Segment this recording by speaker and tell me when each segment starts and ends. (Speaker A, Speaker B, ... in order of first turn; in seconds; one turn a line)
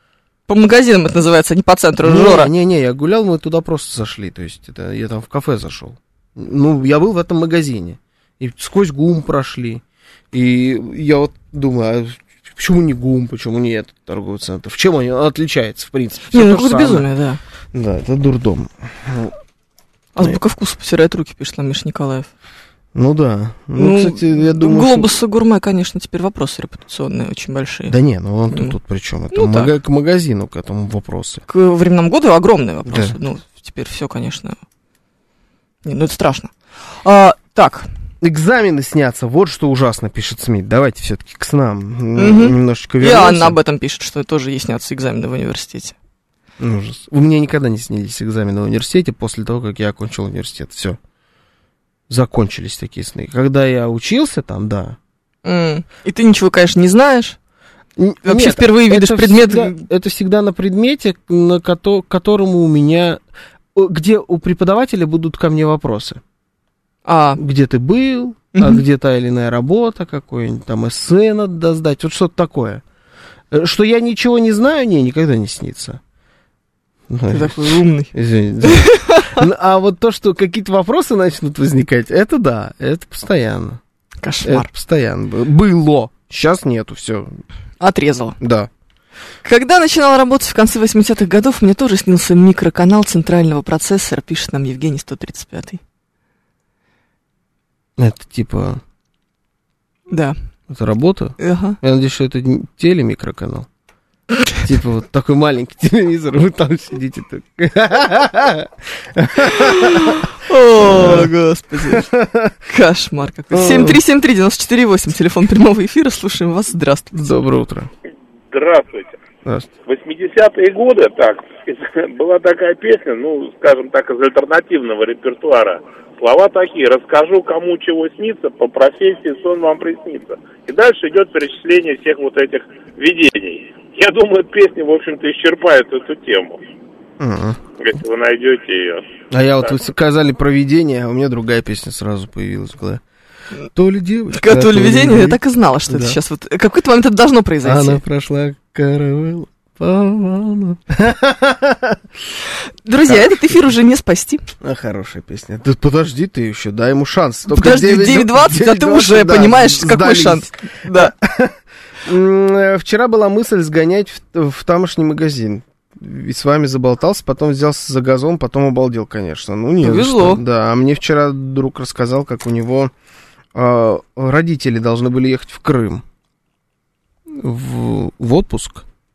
Speaker A: 0.5-2.5
Speaker B: 2.0-17.1
Speaker A: 16.3-17.4
Speaker B: 17.7-19.4
Speaker A: 20.2-22.3
Speaker B: 22.9-25.1
Speaker A: 23.8-27.9
Speaker B: 27.9-31.4
Speaker A: 28.5-28.8
Speaker A: 29.3-29.7
Speaker A: 31.5-34.6
Speaker B: 32.9-33.2
Speaker A: 35.9-37.9
Speaker B: 38.2-43.6
Speaker A: 42.2-46.0
Speaker B: 46.6-51.0
Speaker B: 52.1-55.0
Speaker A: 55.5-57.4
Speaker B: 58.0-63.2
Speaker A: 58.2-59.8
Speaker B: 63.8-66.2
Speaker A: 67.1-67.4
Speaker B: 67.4-72.8
Speaker A: 68.5-68.8
Speaker B: 73.5-76.0
Speaker B: 77.1-83.8
Speaker A: 77.3-78.1
Speaker A: 78.6-79.4
Speaker A: 84.2-84.7
Speaker B: 84.4-87.4
Speaker A: 87.8-88.4
Speaker B: 88.4-88.7
Speaker A: 89.4-95.8
Speaker B: 98.0-98.8
Speaker B: 100.7-103.7
Speaker A: 101.4-101.8
Speaker B: 104.6-110.2
Speaker A: 109.6-112.1
Speaker B: 110.8-112.6
Speaker A: 112.7-117.3
Speaker B: 113.5-114.0
Speaker B: 117.1-117.9
Speaker C: 118.5-119.2
Speaker B: 119.5-119.7
Speaker C: 119.9-136.6
Speaker B: 137.2-137.6
Speaker C: 137.8-139.1
Speaker B: 139.3-143.0
Speaker B: 143.7-146.2
Speaker A: 144.3-148.0
Speaker B: 147.6-152.0
Speaker A: 152.8-154.5
Speaker B: 153.0-153.6
Speaker B: 154.6-172.9
Speaker A: 157.5-161.1
Speaker A: 169.8-170.4
Speaker B: 173.5-176.0
Speaker B: 177.3-178.9